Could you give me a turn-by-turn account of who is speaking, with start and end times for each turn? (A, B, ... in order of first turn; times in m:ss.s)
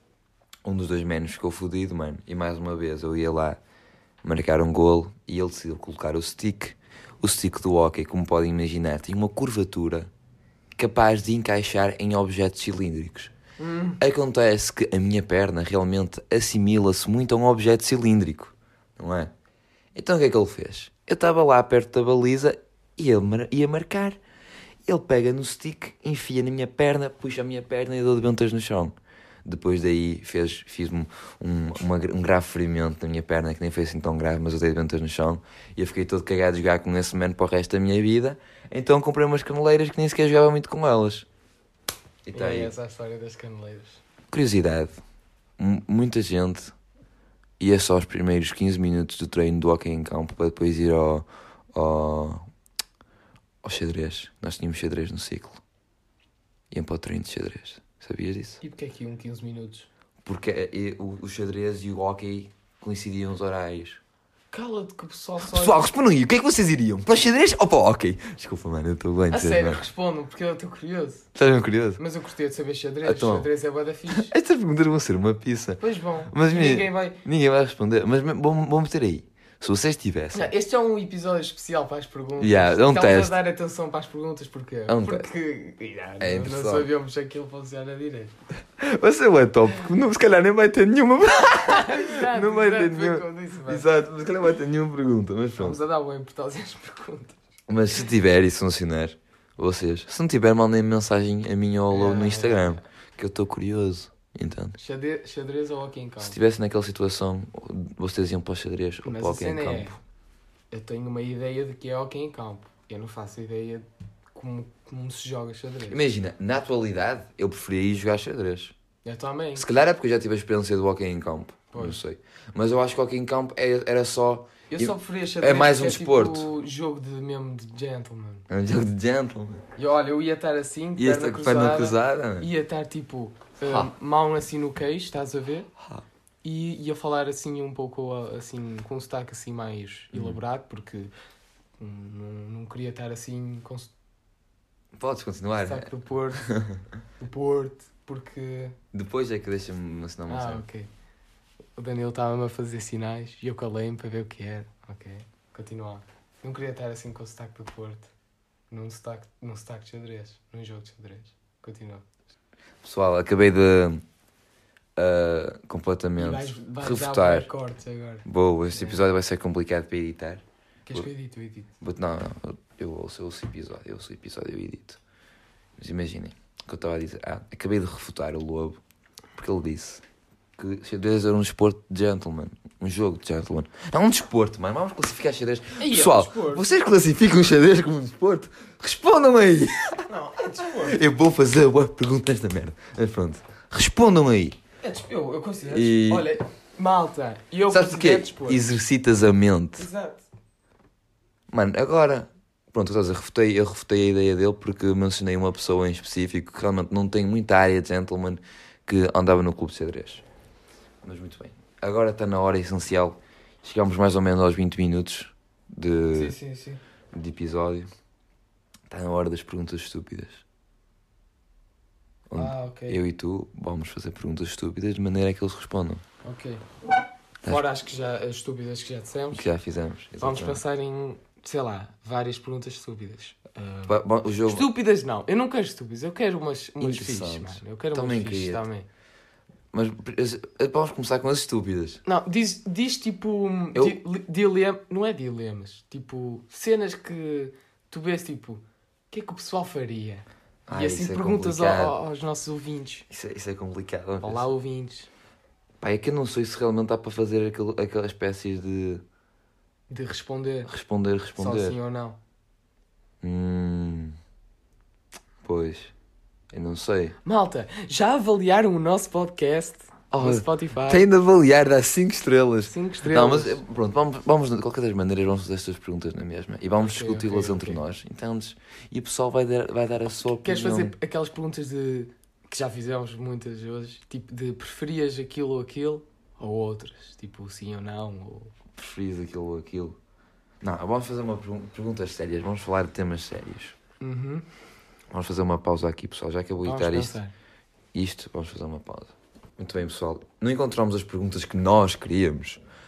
0:00.6-0:03.6 A
0:04.2-0:10.1 A
0:10.8-0:13.3 A
0:13.6-0:14.0 B
0:14.0-0:19.3 A
0:20.0-0:24.2 A
0:24.9-0:28.9 A
0:29.4-0:41.3 A
0:42.2-0:42.7 A
0:42.3-0:44.0 B
0:44.3-0:45.0 A
0:45.6-0:46.7 A
0:47.6-0:52.4 A
0:53.6-0:55.6 A
0:56.7-0:58.6 A
0:58.6-0:59.9 B
1:00.2-1:04.0 A
1:04.5-1:05.8 B
1:05.4-1:09.8 A
1:09.3-1:11.3 B
1:11.4-1:12.0 A
1:12.0-1:14.3 B
1:13.0-1:13.5 A
1:14.1-1:20.5 A
1:15.8-1:17.2 B
1:20.3-1:28.3 B
1:22.4-1:23.4 A
1:24.9-1:25.3 A
1:26.2-1:26.9 A
1:28.8-1:35.8 A
1:31.5-1:33.9 B
1:35.6-1:37.4 B
1:37.7-1:44.8 A
1:41.9-1:42.8 B
1:44.8-1:46.4 B
1:46.2-1:50.0 A
1:49.0-1:50.0 B
1:50.7-1:56.0 B
1:55.9-1:58.7 A
1:59.0-1:59.7 B
1:59.6-2:06.5 A
2:01.7-2:02.0 B
2:04.7-2:08.5 B
2:08.5-2:09.6 A
2:09.8-2:15.7 B
2:11.0-2:12.5 A
2:13.6-2:13.9 A
2:15.8-2:16.0 A
2:16.4-2:21.1 B
2:20.1-2:20.4 A
2:21.8-2:23.9 B
2:25.0-2:25.9 A
2:25.6-2:26.6 B
2:26.4-2:26.8 A
2:27.2-2:28.8 B
2:28.9-2:30.6 A
2:30.3-2:30.9 B
2:31.8-2:38.1 B
2:38.7-2:42.0 B
2:42.8-2:44.0 A
2:45.0-2:47.5 A
2:46.2-2:49.0 B
2:48.2-2:51.1 A
2:50.9-2:51.7 B
2:51.8-2:55.0 A
2:55.8-2:58.8 A
2:59.4-3:00.0 A
3:00.6-3:10.1 A
3:05.8-3:06.6 B
3:10.1-3:11.0 B
3:10.7-3:14.6 A
3:14.8-3:18.6 B
3:15.7-3:16.3 A
3:17.7-3:19.9 A
3:19.8-3:20.2 B
3:21.5-3:30.2 A
3:31.0-3:36.4 A
3:36.1-3:36.8 B
3:37.1-3:37.9 A
3:38.9-3:40.4 A
3:42.3-3:46.0 A
3:42.4-3:43.0 B
3:46.2-3:46.7 B
3:47.4-3:49.5 B
3:49.3-3:50.6 A
3:50.2-3:58.9 B
3:53.9-3:54.7 A
3:56.8-3:58.6 A
3:59.7-4:02.0 A
4:02.0-4:13.1 B
4:10.7-4:12.0 A
4:13.1-4:14.5 A
4:14.2-4:15.1 B
4:15.8-4:19.0 A
4:19.9-4:20.7 B
4:20.7-4:21.8 A
4:21.4-4:22.2 B
4:23.2-4:24.2 A
4:25.4-4:25.9 A
4:26.5-4:27.2 A
4:27.2-4:31.1 B
4:30.1-4:40.9 A
4:32.7-4:33.6 B
4:36.8-4:37.8 B
4:40.4-4:48.5 B
4:48.8-4:50.0 A
4:50.6-4:53.8 A
4:54.0-4:54.5 B
4:55.1-4:57.2 A
4:56.6-4:57.3 B
4:57.9-5:02.6 A